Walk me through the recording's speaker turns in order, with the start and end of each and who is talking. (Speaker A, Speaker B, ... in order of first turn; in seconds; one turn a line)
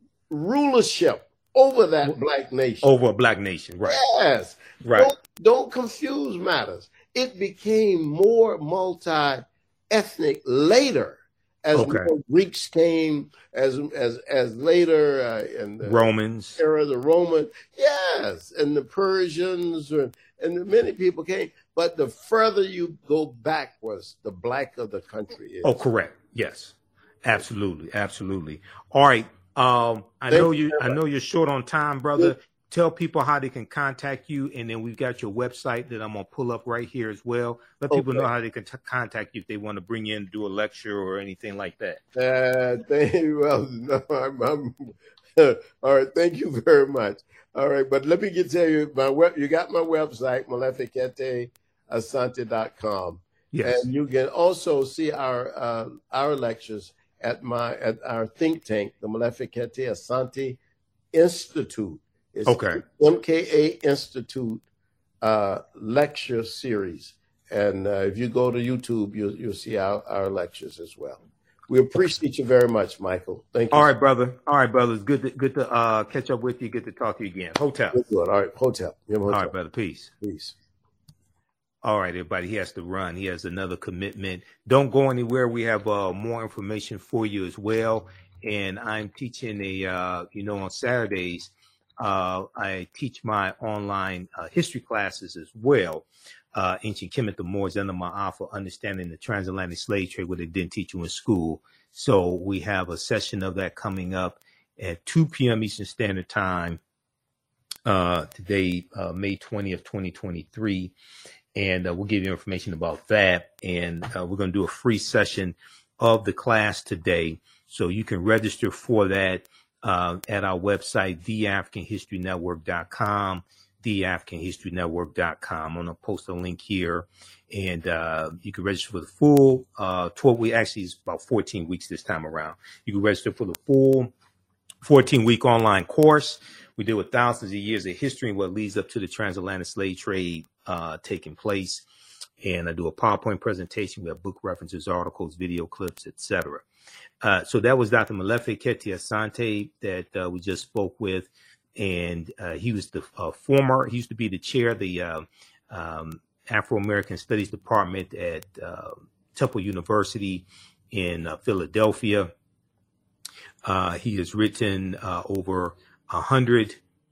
Speaker A: 0.3-2.9
Speaker B: 2.8-4.0
Speaker A: 3.9-25.8
Speaker B: 4.8-5.1
Speaker B: 11.7-12.1
Speaker B: 15.8-16.6
Speaker B: 25.6-42.0
Speaker A: 30.3-31.0
Speaker A: 37.9-38.3
Speaker A: 42.1-60.6
Speaker B: 53.5-53.9
Speaker A: 61.1-64.6
Speaker B: 62.5-62.8
Speaker A: 65.2-73.9
Speaker B: 73.7-78.0
Speaker A: 77.9-79.5
Speaker B: 79.3-80.1
Speaker A: 80.2-80.6
Speaker B: 81.8-106.8
Speaker B: 107.8-110.9
Speaker B: 111.5-134.1
Speaker B: 134.8-141.8
Speaker B: 142.4-146.6
Speaker B: 147.2-162.3
Speaker B: 163.6-166.8